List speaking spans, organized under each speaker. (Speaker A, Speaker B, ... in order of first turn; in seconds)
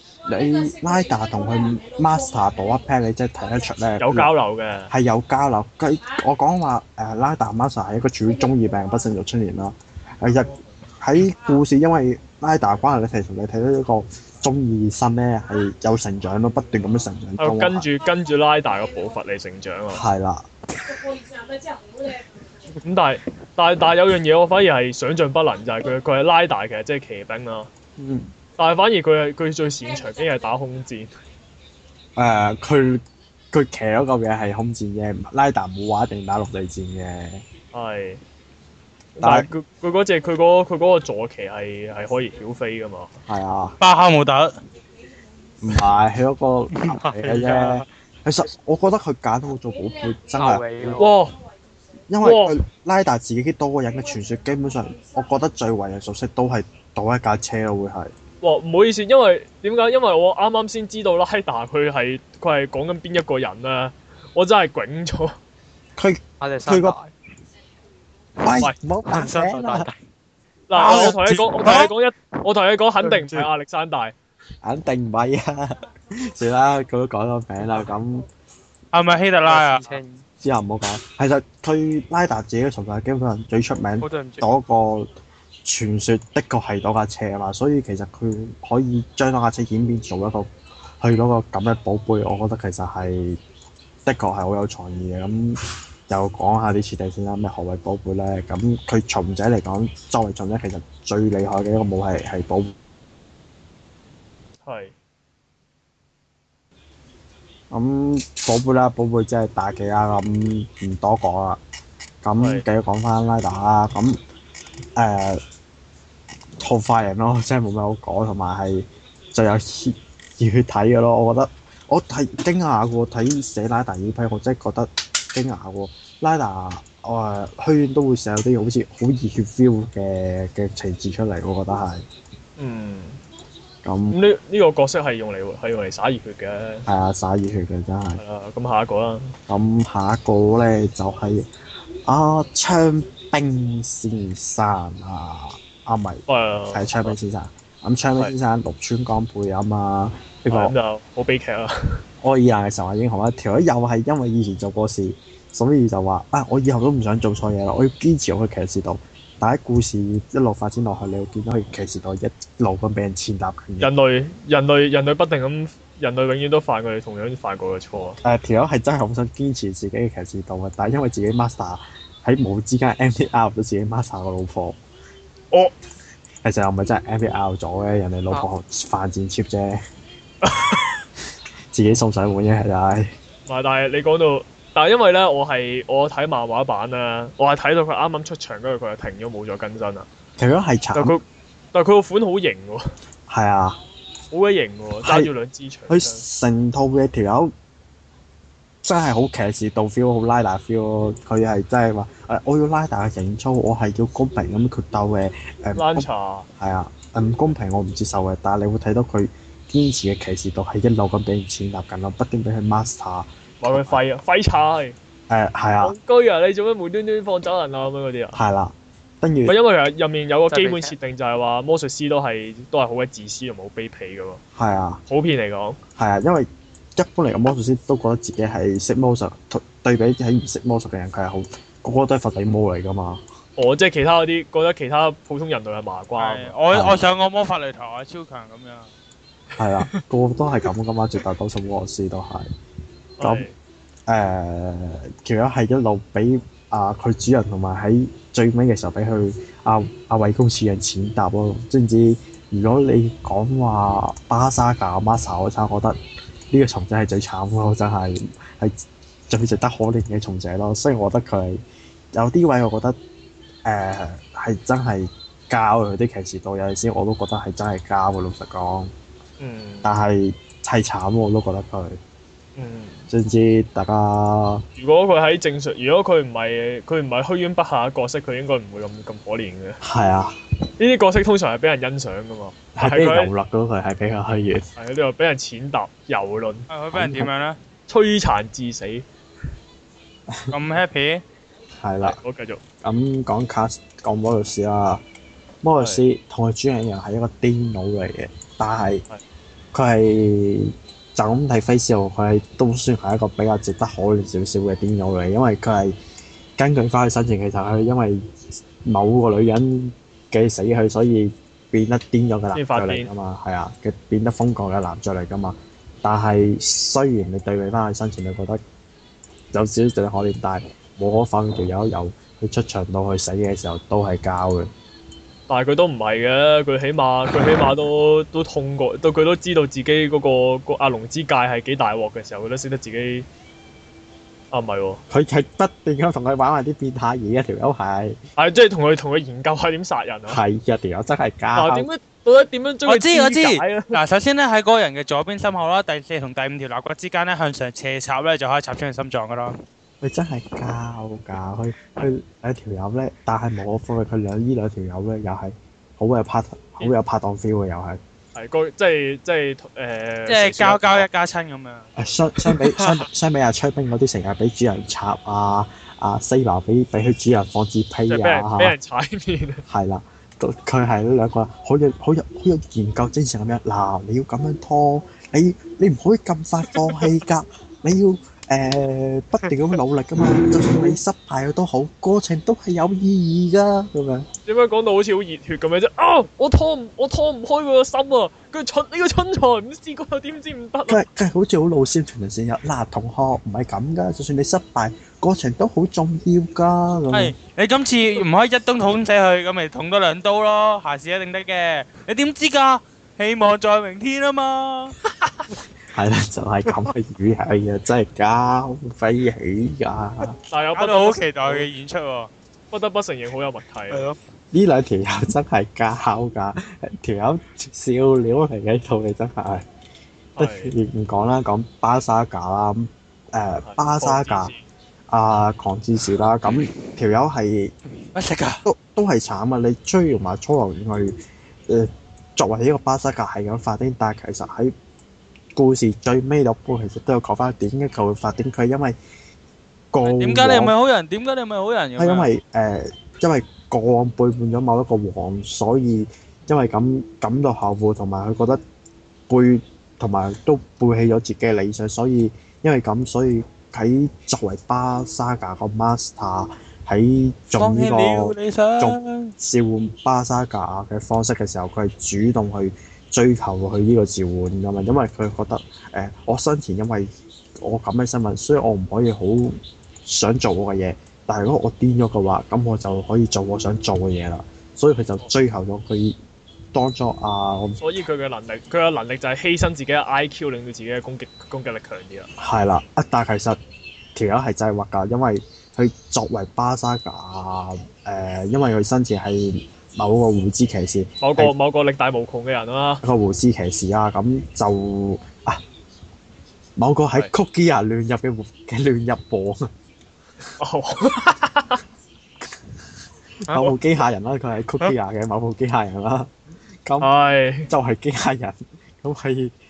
Speaker A: 0.3-4.3, 4.9-17.9, 19.9-20.5, 28.0-28.3, 32.2-37.5, 39.2-39.5, 43.3-43.8, 45.6-51.1, 52.1-58.1, 66.0-67.0, 68.4-69.9, 73.1-73.5, 74.6-78.3, 80.4-85.1, 85.6-93.4, 94.0-102.8, 107.7-111.6, 112.2-114.2, 115.0-115.4, 116.6-132.1, 133.8-134.2, 136.9-138.2, 139.5-141.5, 142.1-150.8, 152.2-163.9, 168.2-174.8, 176.4-179.8, 181.7-183.1, 190.4-191.2, 193.3-193.8, 195.0-195.3, 195.9-197.5, 198.8-206.1, 206.6-214.0, 215.3-216.0, 218.3-219.6, 224.6-225.0, 226.0-233.2, 236.7-237.0, 239.6-242.5, 243.2-243.5, 244.1-256.0, 256.5-261.6, 262.1-263.0, 263.6-268.9, 269.8-272.0, 273.1-274.7, 279.8-280.4, 282.8-284.7, 286.9-287.3, 291.8-292.2, 292.8-295.0, 295.6-299.0, 299.7-306.0, 306.6-318.6, 319.5-324.7, 335.1-338.2, 340.3-341.9, 350.0-358.0, 362.0-368.8, 369.7-384.3, 390.9-397.4, 405.9-410.4, 414.5-419.7, 420.4-424.5, 425.1-427.7, 428.6-434.7, 435.6-439.0, 439.9-440.7, 442.0-448.6, 449.3-476.2, 476.7-477.8, 482.4-483.6, 484.1-491.5, 493.0-495.6, 496.8-499.7, 503.4-506.3, 506.9-507.1, 507.7-509.6
Speaker B: 4.0-4.9, 17.4-20.1, 22.8-27.7, 28.6-31.1, 37.7-38.2, 39.2-43.2, 51.0-51.4, 52.2-52.6, 58.4-65.3, 70.7-74.1, 104.7-104.9, 112.4-112.7, 132.6-133.2, 134.1-136.9, 138.2-139.4, 146.3-147.2, 150.5-152.0, 163.8-168.2, 180.4-181.0, 183.5-190.1, 190.9-192.9, 194.3-196.2, 205.8-206.5, 213.6-215.0, 215.8-218.4, 219.5-224.4, 225.1-225.8, 233.6-236.6, 239.6-240.0, 243.2-243.5, 269.4-269.9, 272.6-273.1, 274.8-279.8, 280.8-283.3, 284.8-286.7, 287.9-289.1, 292.0-292.6, 312.5-313.1, 325.5-333.3, 334.5-335.0, 338.4-340.4, 341.6-343.9, 358.4-361.1, 362.5-362.9, 368.1-369.6, 384.5-391.0, 410.5-411.7, 412.7-414.1, 420.4-420.7, 423.6-424.6, 477.8-482.3, 491.2-493.0, 500.6-501.8, 507.0-507.7
Speaker C: 43.8-44.6, 70.8-71.9, 78.9-79.9, 236.2-238.9, 286.7-287.6, 290.5-291.2, 342.9-349.6, 360.3-361.9, 397.1-404.9, 410.7-412.3, 428.1-428.6, 440.0-442.3, 457.6-459.3
Speaker D: 46.9-47.9, 50.4-51.1, 66.4-67.1, 69.1-70.0, 79.5-80.2, 84.0-84.5, 220.5-220.9